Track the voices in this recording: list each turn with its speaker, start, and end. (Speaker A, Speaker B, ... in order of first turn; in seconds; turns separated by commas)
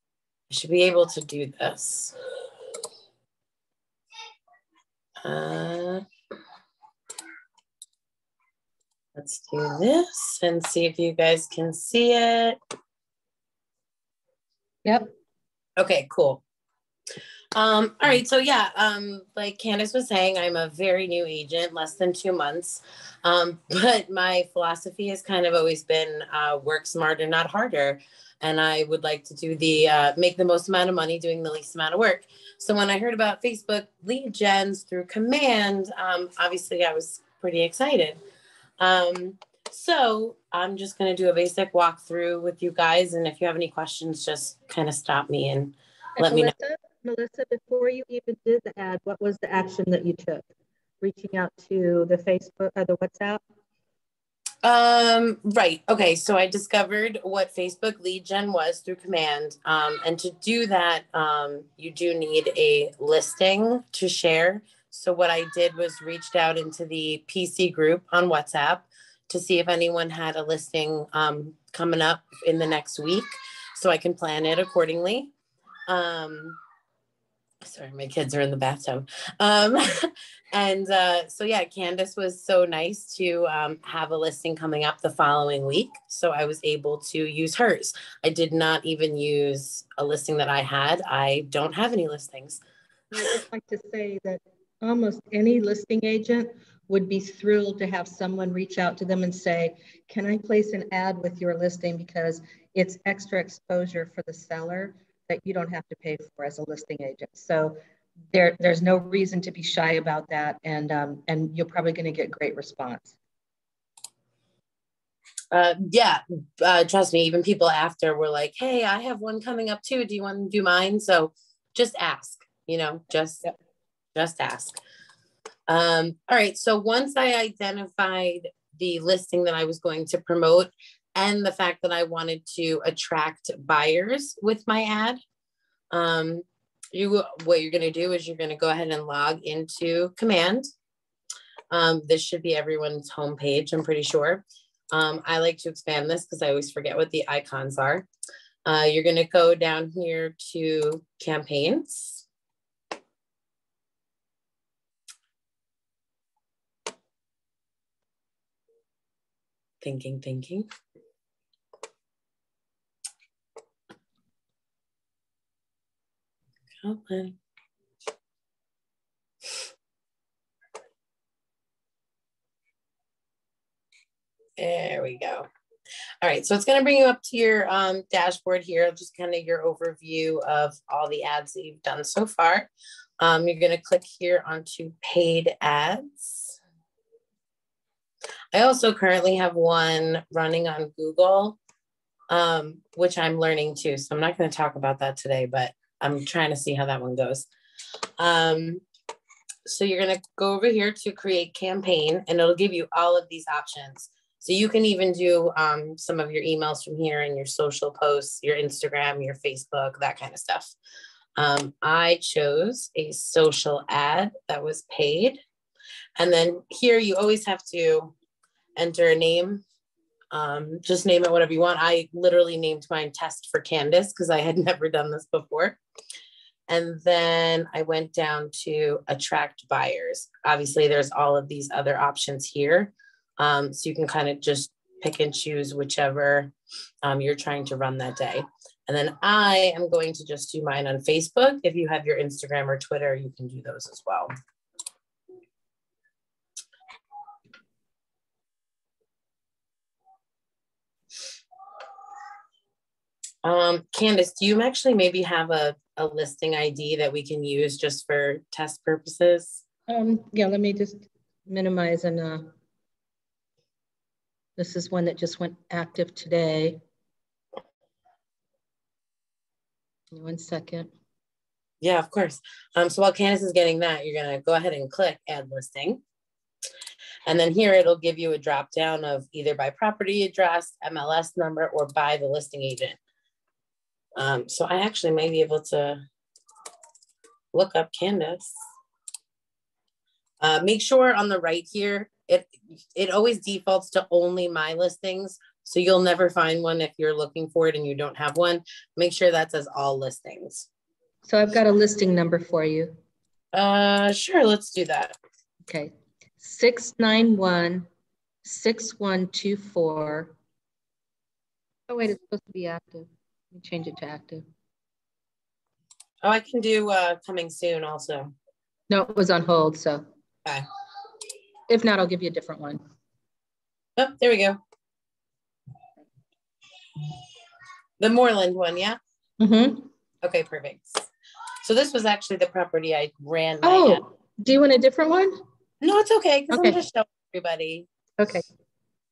Speaker A: 0.5-2.1, Speaker A: 5.2-6.0, Speaker A: 9.2-12.6, Speaker B: 14.8-15.1, Speaker A: 15.8-16.4, Speaker A: 17.5-38.2, Speaker A: 38.8-46.5, Speaker B: 46.2-50.5, Speaker B: 51.0-53.4, Speaker A: 54.6-75.3, Speaker A: 75.9-76.6, Speaker A: 77.6-92.6, Speaker B: 93.1-107.8, Speaker B: 108.3-113.1, Speaker A: 115.5-123.4, Speaker A: 124.1-124.8, Speaker A: 125.7-135.2, Speaker A: 135.9-140.7, Speaker A: 141.7-148.1, Speaker A: 148.6-152.2, Speaker A: 159.8-160.7, Speaker A: 166.8-167.3, Speaker A: 174.6-175.5, Speaker A: 176.2-182.7, Speaker A: 183.2-186.6, Speaker A: 188.5-191.6, Speaker A: 192.3-197.5, Speaker A: 198.2-198.8, Speaker A: 199.7-210.7, Speaker A: 211.4-215.4, Speaker A: 216.2-218.1, Speaker A: 218.8-219.6, Speaker A: 220.3-225.8, Speaker A: 226.7-244.3, Speaker A: 253.4-259.6, Speaker B: 259.9-262.5, Speaker B: 264.6-266.8, Speaker B: 270.1-270.9, Speaker A: 271.8-276.0, Speaker A: 277.2-283.0, Speaker A: 284.2-286.0, Speaker A: 287.5-288.5, Speaker A: 290.4-300.7, Speaker B: 301.2-302.9, Speaker A: 303.5-305.2, Speaker B: 305.7-307.9, Speaker B: 308.4-310.3, Speaker B: 311.9-314.4, Speaker A: 316.2-318.3, Speaker B: 318.9-320.0, Speaker B: 321.7-322.8, Speaker A: 324.0-324.6, Speaker A: 328.0-329.0, Speaker B: 329.4-329.9, Speaker A: 330.2-331.0, Speaker A: 331.6-334.0, Speaker B: 333.6-335.4, Speaker A: 335.8-337.9, Speaker B: 336.5-336.8